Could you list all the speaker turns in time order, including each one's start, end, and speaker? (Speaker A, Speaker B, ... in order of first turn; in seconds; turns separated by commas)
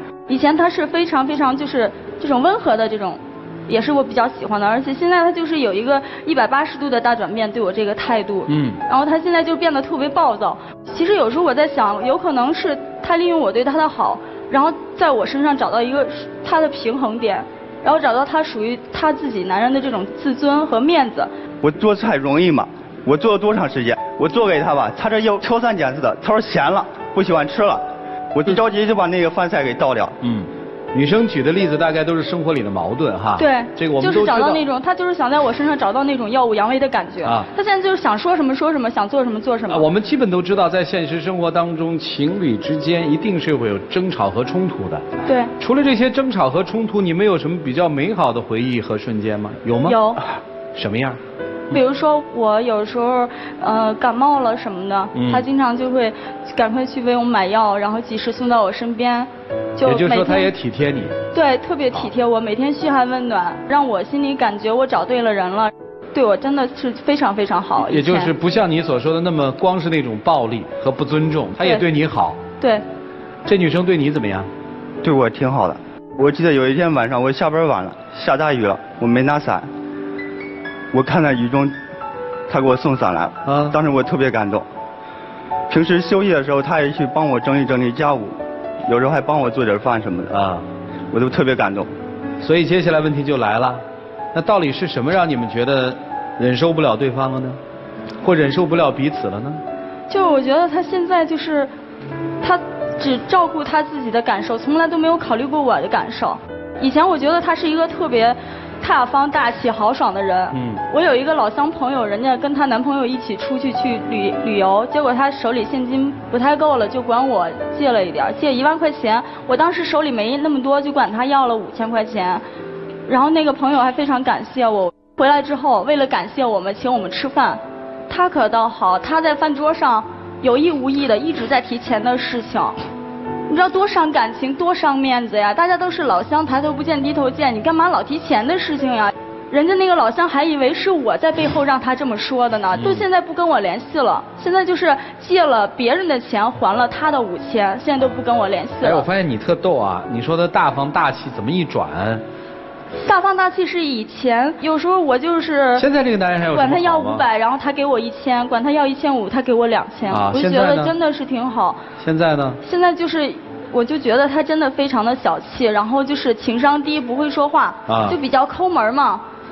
Speaker A: 0.3-21.3, Speaker B: 8.5-8.8, Speaker C: 21.6-30.2, Speaker B: 30.2-34.6, Speaker A: 33.4-39.9, Speaker B: 37.2-37.5, Speaker B: 39.7-50.0, Speaker A: 45.2-45.5, Speaker A: 49.9-50.2, Speaker B: 50.7-51.2, Speaker A: 51.7-60.5, Speaker B: 55.1-55.5, Speaker B: 59.9-61.2, Speaker A: 61.3-68.3, Speaker B: 67.8-72.4, Speaker A: 71.6-71.9, Speaker A: 72.6-72.8, Speaker B: 73.5-74.5, Speaker C: 75.0-79.7, Speaker C: 80.9-81.8, Speaker C: 82.5-84.7, Speaker B: 83.5-83.8, Speaker C: 85.7-90.4, Speaker B: 90.3-90.7, Speaker C: 91.1-91.9, Speaker B: 92.4-93.8, Speaker B: 94.3-97.6, Speaker B: 98.2-99.6, Speaker A: 100.1-101.7, Speaker A: 102.4-122.4, Speaker B: 110.5-110.8, Speaker A: 123.1-132.8, Speaker A: 133.5-149.1, Speaker B: 142.8-143.1, Speaker B: 148.8-152.2, Speaker A: 153.0-155.9, Speaker B: 155.8-157.2, Speaker A: 156.5-161.8, Speaker B: 160.1-160.9, Speaker B: 162.0-162.6, Speaker A: 162.6-169.2, Speaker B: 167.9-168.2